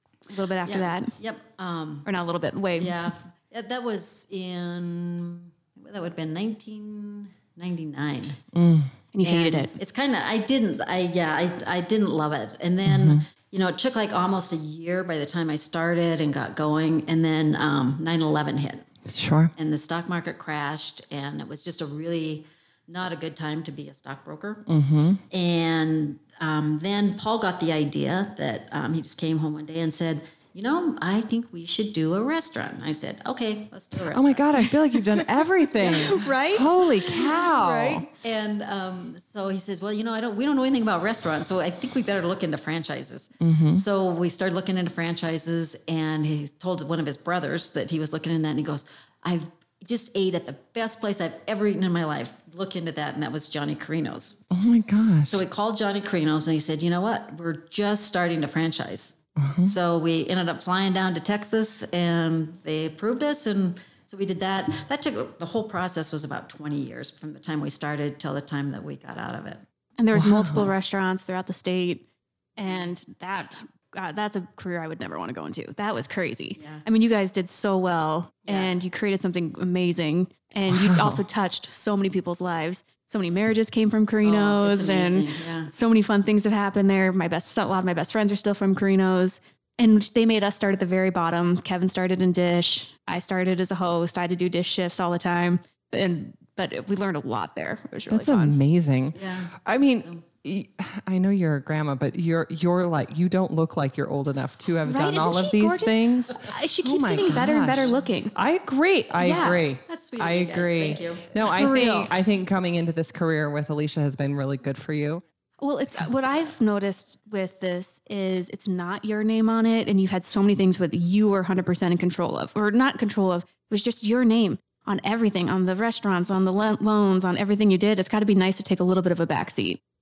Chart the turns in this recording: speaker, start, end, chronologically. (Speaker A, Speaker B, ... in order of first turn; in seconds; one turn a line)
Speaker A: 0.3-1.2
Speaker B: 0.7-2.1
Speaker A: 2.0-3.1
Speaker B: 2.8-8.4
Speaker C: 8.5-8.9
Speaker A: 9.1-9.8
Speaker B: 9.2-18.9
Speaker C: 12.9-13.2
Speaker C: 19.1-19.5
Speaker B: 19.6-24.7
Speaker C: 24.7-25.2
Speaker B: 25.3-34.6
Speaker C: 34.0-38.1
Speaker A: 34.6-38.1
Speaker B: 38.2-54.4
Speaker C: 43.4-43.8
Speaker C: 54.5-55.4
Speaker B: 54.9-69.6
Speaker C: 59.4-59.7
Speaker A: 70.0-72.0
Speaker C: 70.1-70.7
Speaker A: 72.6-98.6
Speaker B: 76.6-76.8
Speaker B: 78.5-78.8
Speaker C: 80.7-81.2
Speaker B: 84.2-85.7
Speaker C: 98.1-115.2
Speaker B: 99.2-100.2
Speaker A: 104.9-108.3
Speaker B: 107.7-108.0
Speaker A: 109.2-109.6
Speaker B: 109.2-111.3
Speaker A: 111.4-112.1
Speaker A: 115.6-129.8